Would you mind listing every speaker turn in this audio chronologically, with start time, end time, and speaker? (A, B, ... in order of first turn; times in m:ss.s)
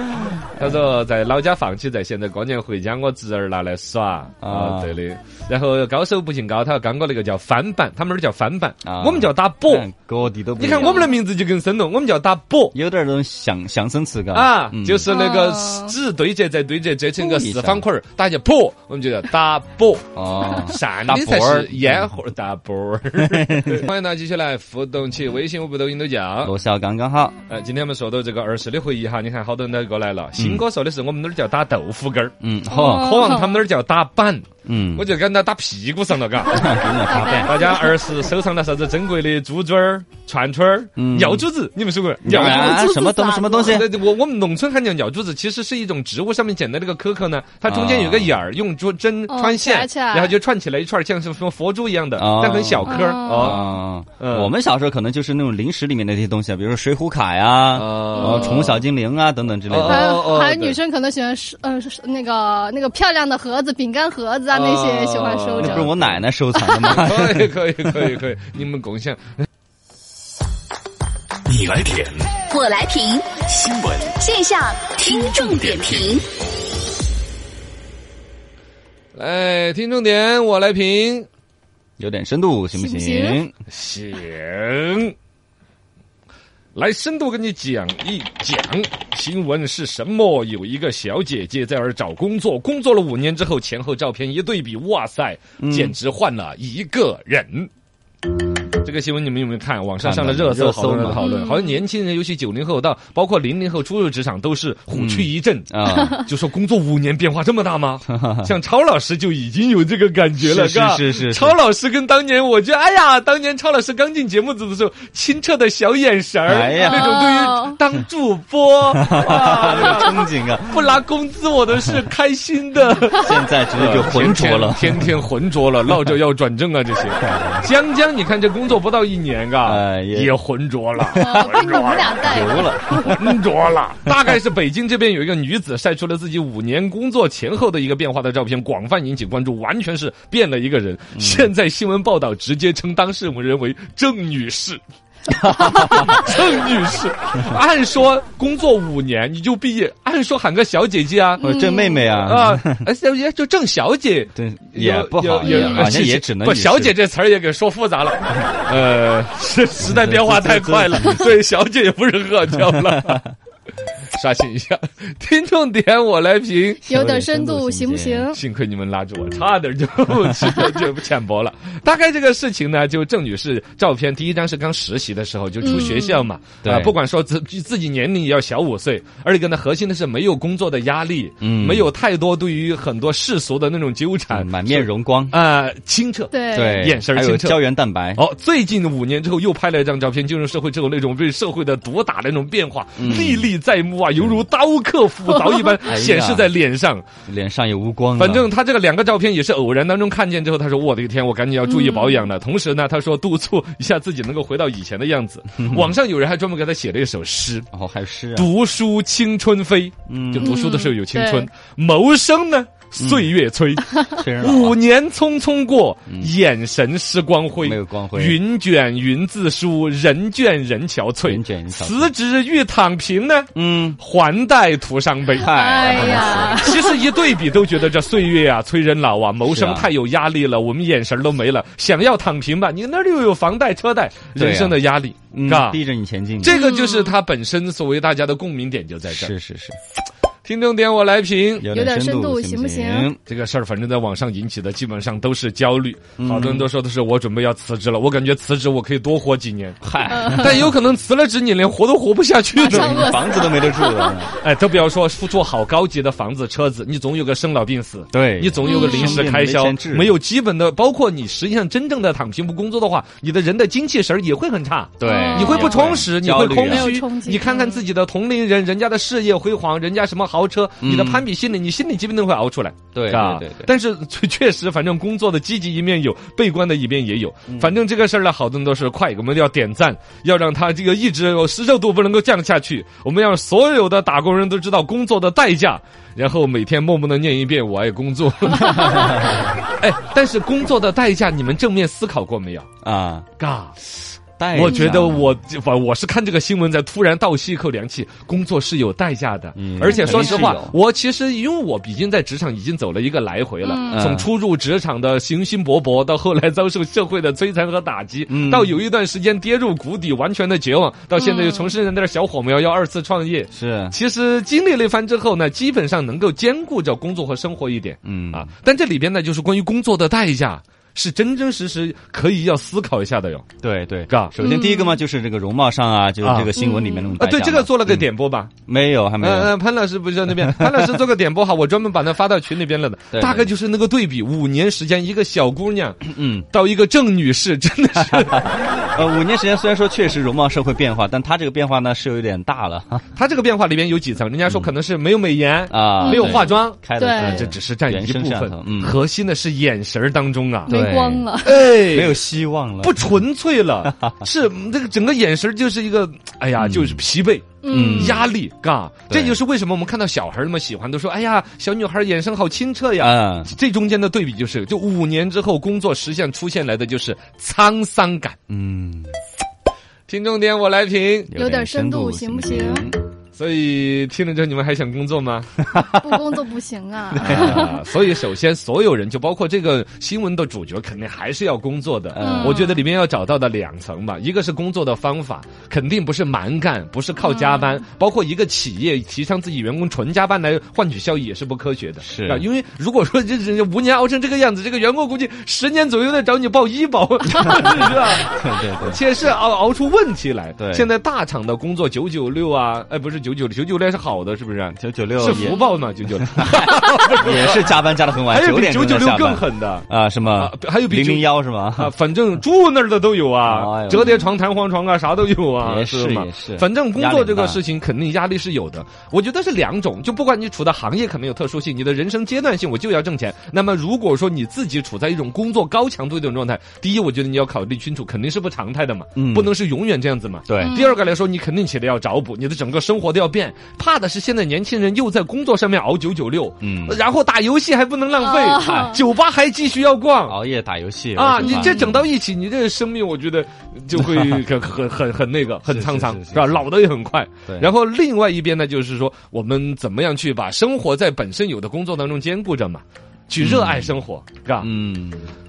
0:00.2-0:09.9 A
0:04.4-0:05.0 B
0:08.8-0:11.1 B
0:10.6-0:12.8 A
0:10.8-0:11.1 C
0:12.7-0:15.2 B
0:14.3-0:26.5 A
0:15.1-0:16.0 C
0:17.2-0:17.8 B
0:20.2-0:22.1 B
0:23.3-0:23.8 B
0:26.4-0:27.4 B
0:27.5-0:36.7 A
0:30.4-0:30.6 B
0:32.4-0:33.3 B
0:32.7-0:33.6 C
0:34.7-0:35.1 B
0:36.5-0:37.6 B
0:37.0-0:38.1 C
0:37.4-0:43.0 A
0:41.0-0:41.4 B
0:42.2-0:43.9 B
0:42.3-0:43.8 C
0:43.6-0:53.6 A
0:47.7-0:48.4 B
0:49.3-0:50.4 C
0:52.2-1:00.1 B
0:52.9-0:53.8 C
0:54.2-0:54.5 A
0:57.7-0:58.8 A
0:58.1-0:58.5 C
0:59.7-1:00.8 A
0:59.8-1:05.9 C
1:04.5-1:06.2 A
1:05.6-1:07.5 B
1:06.6-1:06.9 C
1:06.9-1:09.2 A
1:11.5-1:12.4 D
1:12.5-1:16.2 E
1:13.5-1:14.1 D
1:15.2-1:16.1 D
1:19.2-1:21.3 A
1:22.0-1:23.5 B
1:22.7-1:23.4 C
1:23.7-1:25.1 A
1:26.8-1:37.7 A
1:35.6-1:36.0 B
1:38.8-2:24.8 A
1:40.0-1:41.3 B
1:41.2-1:41.8 C
1:44.9-1:46.2 B
1:48.1-1:48.5 B
1:50.4-1:51.6 B
1:56.5-1:57.4 B
1:56.8-1:57.8 C
1:59.0-2:00.9 B
2:03.1-2:05.1 B
2:07.2-2:07.7 B
2:09.6-2:10.3 B
2:11.1-2:11.5 B
2:11.2-2:13.2 C
2:12.2-2:13.4 B
2:21.2-2:21.5 B
2:25.4-2:31.5 A
2:25.7-2:26.1 B
2:31.4-2:32.1 C
2:31.4-2:32.8 B
2:32.1-2:43.2 A
2:34.3-2:37.0 B
2:39.8-2:41.3 B
2:44.1-2:46.8 A
2:46.8-2:48.4 C
2:46.9-2:48.3 B
2:48.3-3:07.6 A
2:55.6-2:56.3 C
2:56.6-2:56.9 B
3:01.4-3:01.9 B
3:04.3-3:05.4 B
3:06.3-3:06.8 C
3:06.5-3:08.2 B
3:08.2-3:17.0 A
3:13.0-3:13.5 B
3:15.3-3:15.7 C
3:15.8-3:16.5 B
3:17.3-3:18.5 B
3:18.2-3:27.7 A
3:21.7-3:22.3 C
3:25.6-3:25.9 B
3:27.7-3:28.5 B
3:28.4-3:55.8 A
3:30.1-3:30.6 B
3:30.4-3:31.5 C
3:33.0-3:33.3 B
3:34.1-3:34.8 B
3:36.1-3:36.3 B
3:37.6-3:38.4 B
3:41.2-3:42.1 B
3:43.5-3:44.0 B
3:45.4-3:47.1 C
3:45.4-3:46.6 B
3:49.4-3:49.9 B
3:54.4-3:54.8 B
3:55.3-3:56.6 B
3:56.4-3:59.3 A
3:56.5-3:57.2 C
3:59.1-3:59.8 B
4:00.4-4:01.7 A
4:01.6-4:03.2 B
4:01.7-4:03.1 C
4:03.3-4:09.8 A
4:06.2-4:06.7 B
4:09.8-4:10.7 B
4:10.1-4:10.6 C
4:10.3-4:13.1 A
4:12.6-4:14.3 C
4:12.6-4:14.4 B
4:14.4-4:49.2 A
4:18.1-4:20.1 B
4:18.6-4:19.3 C
4:25.0-4:27.0 B
4:25.0-4:26.0 C
4:26.5-4:27.8 C
4:30.8-4:31.3 B
4:32.9-4:33.7 B
4:37.5-4:37.7 B
4:48.8-4:49.4 B
4:49.8-4:52.7 A
4:52.8-4:53.3 B
4:53.4-4:53.8 A
4:54.4-4:55.4 B
4:54.5-5:23.5 A
4:59.6-5:00.8 B
4:59.8-5:00.6 C
5:03.6-5:04.1 C
5:03.9-5:04.3 B
5:08.3-5:08.8 B
5:11.2-5:11.7 C
5:13.5-5:14.0 B
5:18.0-5:18.5 B
5:23.6-5:28.1 B
5:24.1-5:24.3 A
5:24.4-5:25.0 C
5:26.2-5:26.6 A
5:26.6-5:27.1 C
5:27.2-5:28.5 A
5:28.7-5:29.6 B
5:29.2-5:38.6 A
5:30.5-5:30.9 B
5:33.1-5:33.5 B
5:36.1-5:36.4 B
5:38.2-5:43.1 B
5:43.2-5:50.7 A
5:45.7-5:49.0 B
5:46.0-5:47.5 C
5:50.7-5:51.3 B
5:50.7-5:51.6 C
5:51.4-5:52.2 A
5:51.8-5:53.0 B
5:52.8-6:08.4 A
5:56.6-5:57.0 B
5:57.6-5:58.3 C
5:57.7-5:58.2 B
5:59.1-5:59.4 B
6:03.0-6:03.5 B
6:08.5-6:09.1 B
6:10.1-6:11.3 A
6:11.3-6:13.0 B
6:11.3-6:12.9 C
6:13.4-6:15.5 A
6:15.7-6:16.0 B
6:16.0-6:17.8 C
6:17.1-6:17.7 B
6:17.2-6:47.7 A
6:22.1-6:22.7 B
6:22.2-6:22.8 C
6:27.3-6:27.6 C
6:32.0-6:32.5 B
6:37.3-6:39.0 B
6:40.6-6:40.9 B
6:44.8-6:45.6 B
6:46.2-6:51.9 B
6:48.3-6:49.9 A
6:50.4-7:20.4 A
6:53.5-6:54.2 B
6:55.6-6:57.6 B
7:09.2-7:09.5 B
7:10.5-7:10.8 B
7:10.6-7:11.0 C
7:16.6-7:17.0 B
7:18.2-7:19.0 C
7:18.6-7:19.0 B
7:20.3-7:22.0 B
7:21.2-7:34.7 A
7:21.4-7:22.0 C
7:24.0-7:24.4 B
7:25.7-7:26.6 B
7:33.4-7:34.0 B
7:34.6-7:35.3 B